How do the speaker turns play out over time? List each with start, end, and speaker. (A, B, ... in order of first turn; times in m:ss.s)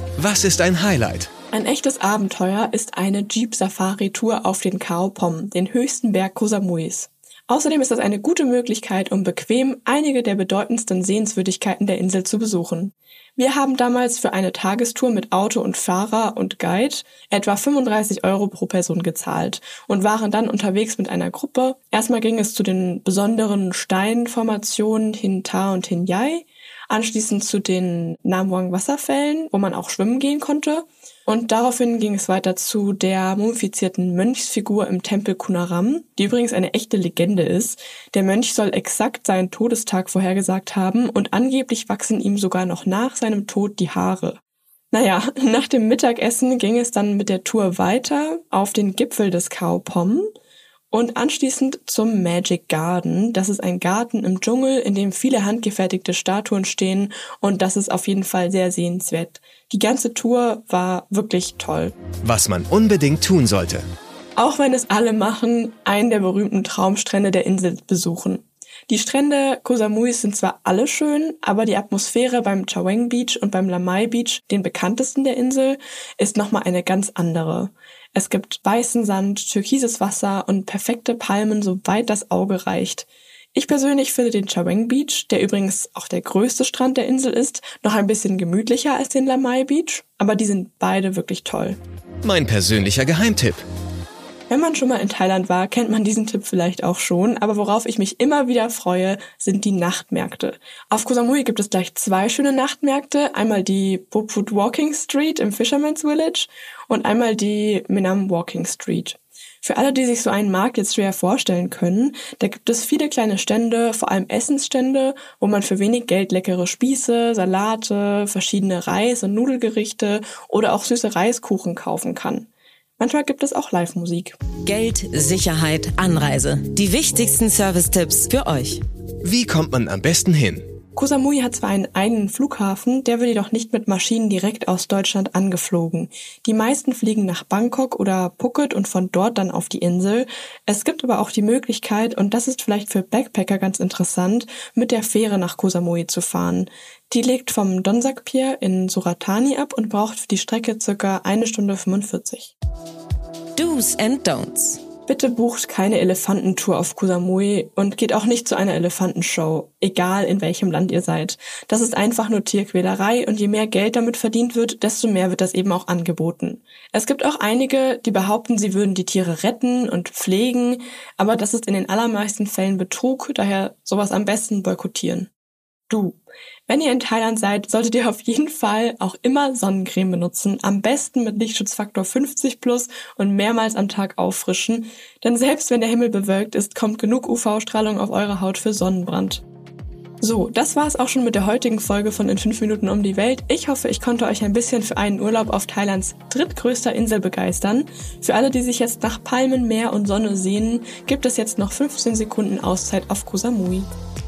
0:00.2-0:01.3 A
0:01.5-0:44.4 B
0:44.9-0:50.3 B
0:50.9-1:01.9 B
1:02.2-1:03.8 A
1:04.4-1:31.8 B
1:32.2-1:33.6 A
1:34.5-2:04.4 B
2:04.6-2:08.8 C
2:09.2-2:10.7 A
2:11.0-2:32.5 B
2:33.6-2:34.8 C
2:35.1-2:55.3 B
2:55.9-3:09.4 B
3:10.2-3:23.9 B